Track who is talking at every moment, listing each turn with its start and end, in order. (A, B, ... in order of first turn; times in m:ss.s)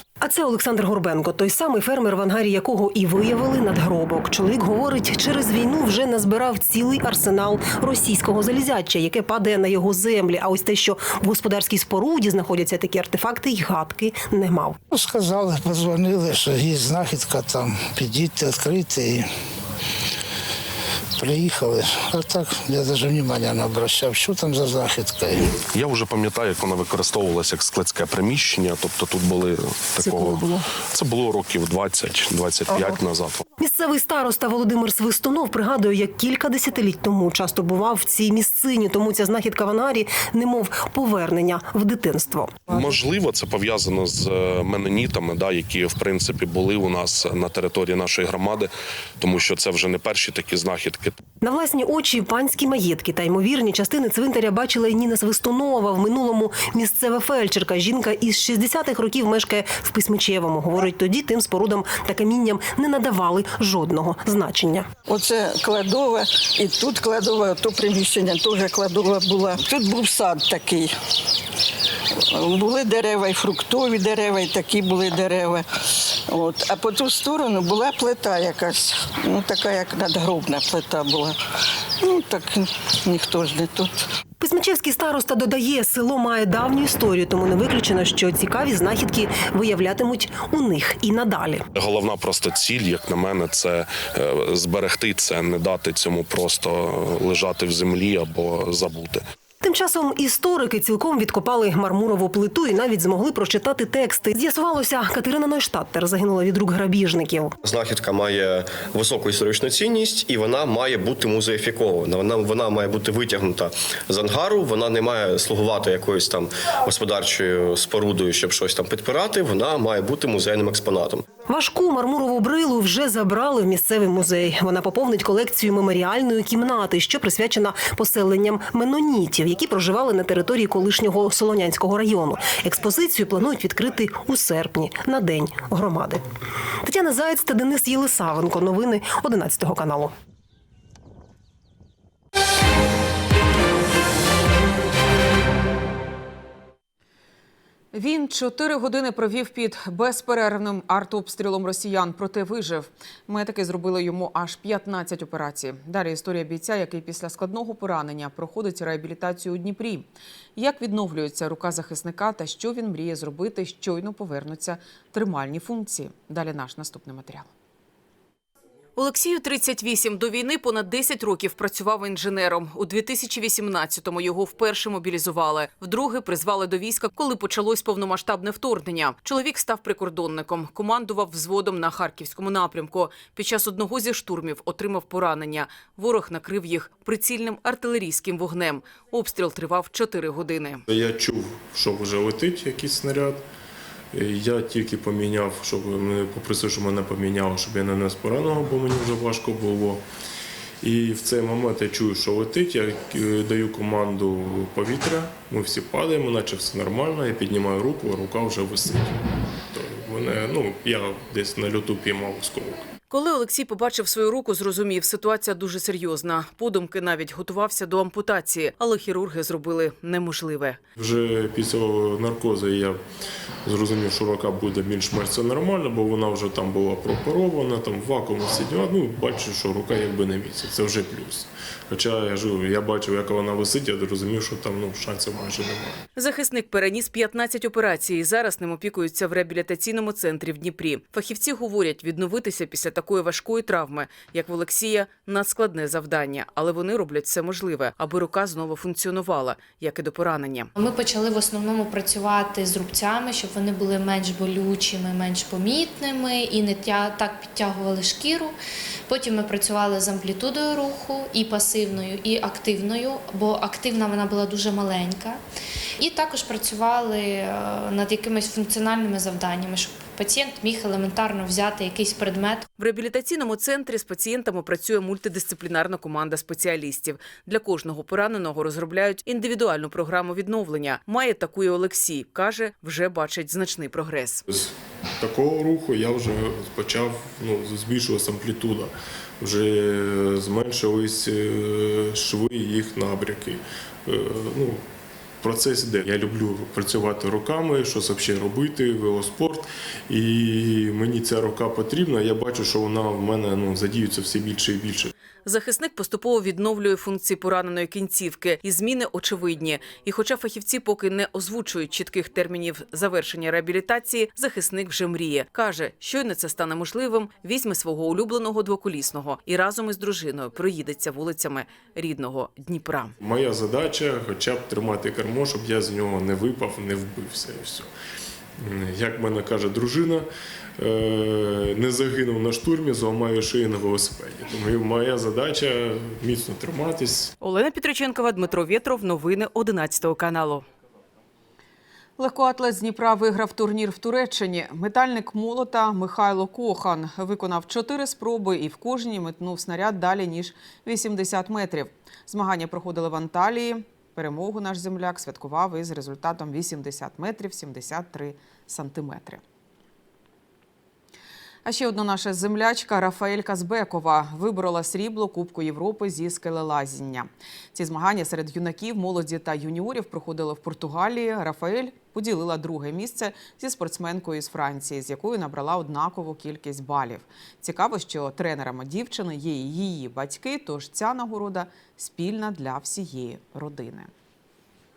0:00.2-0:14.8 A
0:14.9-0:19.3 B
0:21.2-0:25.5 B
0:25.6-0:33.4 C
0:30.0-0:30.6 A
0:32.7-0:33.0 A
0:33.6-0:42.6 A
0:42.7-0:51.2 C
0:51.4-1:04.9 A
1:05.1-1:10.9 D
1:12.3-1:15.7 D
1:16.3-1:21.4 D
1:22.0-1:24.0 D
1:24.4-1:31.6 A
1:31.8-1:39.2 C
1:39.6-1:47.6 A
1:47.6-2:01.2 E
2:01.5-2:16.2 A
2:16.8-2:20.1 A
2:27.9-2:47.5 F
2:49.0-3:10.8 F
3:10.9-3:13.4 G
3:14.1-3:20.0 G
3:20.8-3:32.8 G
3:33.1-3:40.8 F
3:41.0-3:43.0 G
3:43.6-3:56.1 G
3:56.2-4:10.7 F
4:10.8-4:18.5 H
4:19.1-4:25.4 H
4:26.0-4:32.7 H
4:32.8-4:44.4 F
4:44.5-4:54.8 G
4:55.4-5:05.1 G
5:05.4-5:23.1 F
5:23.2-5:27.9 G
5:28.6-5:30.3 G
5:30.8-5:37.3 G
5:37.4-5:40.6 F
5:42.2-5:59.4 F
6:01.6-6:24.1 F